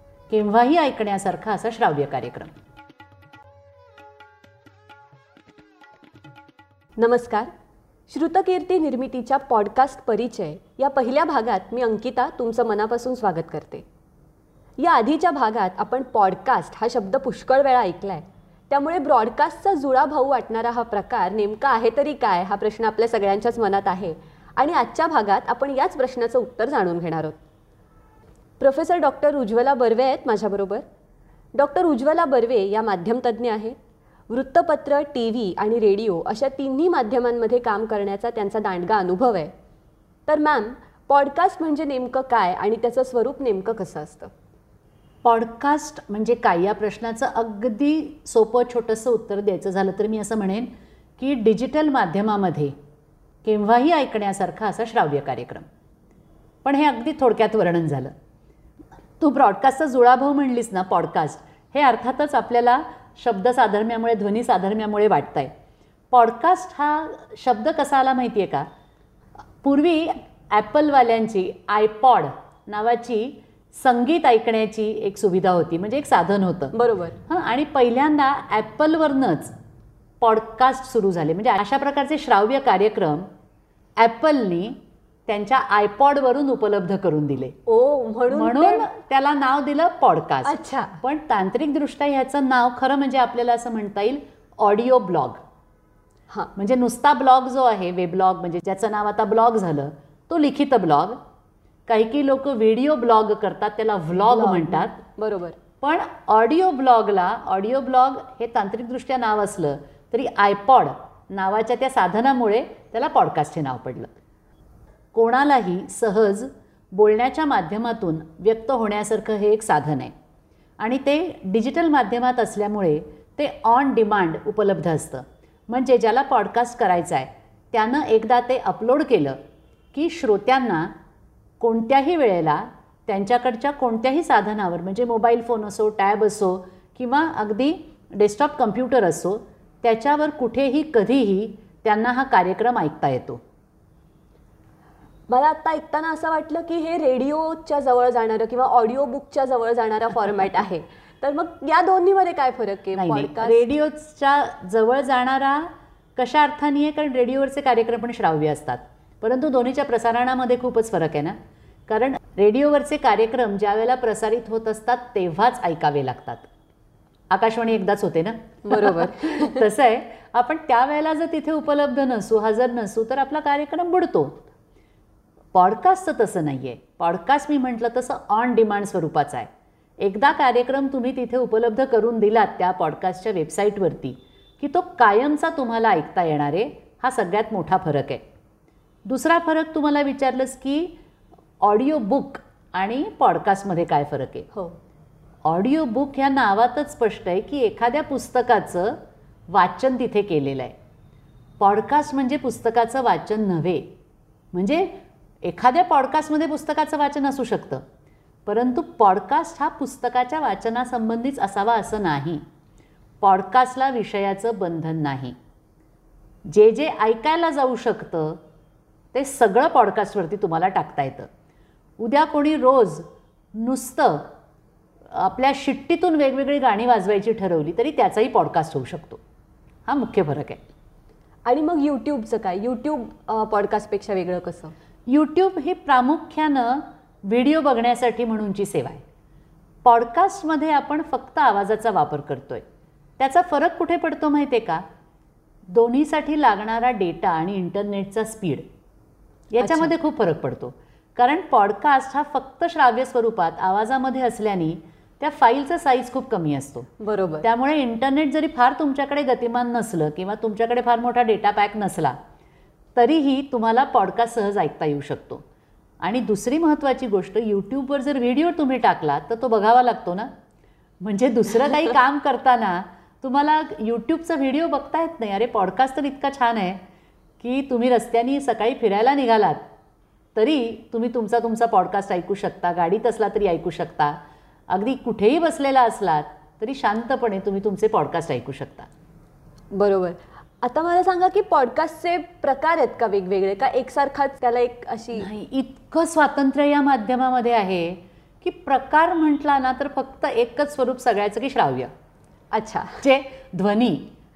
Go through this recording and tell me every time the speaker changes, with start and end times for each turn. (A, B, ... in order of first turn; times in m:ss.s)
0:00.3-0:02.5 A
0:07.0-0:07.5 B
0:08.1-0:13.8 B
0:14.8-0:27.4 B
0:28.6-0:30.8 B
0:31.6-0:33.8 B
0:34.3-0:39.5 B
0:40.3-0:44.3 B
0:45.2-0:52.7 A
0:53.4-0:55.7 A
0:56.6-0:58.1 A
0:59.2-1:05.5 A
1:06.1-1:08.7 A
1:09.6-1:16.7 A
1:16.7-1:17.2 B
1:17.3-1:19.5 A
1:20.2-1:23.3 A
1:24.0-1:24.8 A
1:25.3-1:27.5 A
1:27.7-1:28.9 B
1:28.3-1:35.4 A
1:30.4-1:31.0 B
1:36.6-1:41.2 A
1:41.9-1:45.0 A
1:44.2-1:45.6 B
1:45.8-1:54.1 A
1:55.1-2:00.1 A
2:00.8-2:09.4 A
2:09.9-2:10.9 A
2:11.6-2:23.4 A
2:25.3-2:33.7 B
2:33.0-2:41.4 A
2:41.9-2:46.5 A
2:47.3-2:54.4 A
2:48.7-2:49.6 B
2:55.5-2:59.5 A
3:00.0-3:08.2 A
3:09.1-3:11.0 A
3:11.6-3:14.5 A
3:15.4-3:20.8 A
3:21.6-3:23.9 A
3:24.5-3:27.8 A
3:28.5-3:32.4 A
3:33.2-3:35.4 A
3:36.5-3:38.4 A
3:39.1-3:41.3 A
3:42.0-3:44.3 A
3:45.1-3:49.2 A
3:49.9-3:50.6 A
3:51.4-3:54.7 B
3:55.1-3:59.0 A
3:59.8-4:02.6 A
4:03.2-4:04.8 A
4:05.7-4:08.7 A
4:09.5-4:16.9 A
4:09.6-4:09.9 B
4:17.0-4:17.5 B
4:17.4-4:22.2 A
4:23.0-4:25.4 A
4:26.0-4:30.3 A
4:31.0-4:36.8 A
4:37.4-4:39.6 A
4:40.3-4:44.2 A
4:44.7-4:48.9 A
4:49.7-4:55.3 B
4:55.2-5:01.9 A
5:02.5-5:03.0 B
5:03.0-5:04.1 A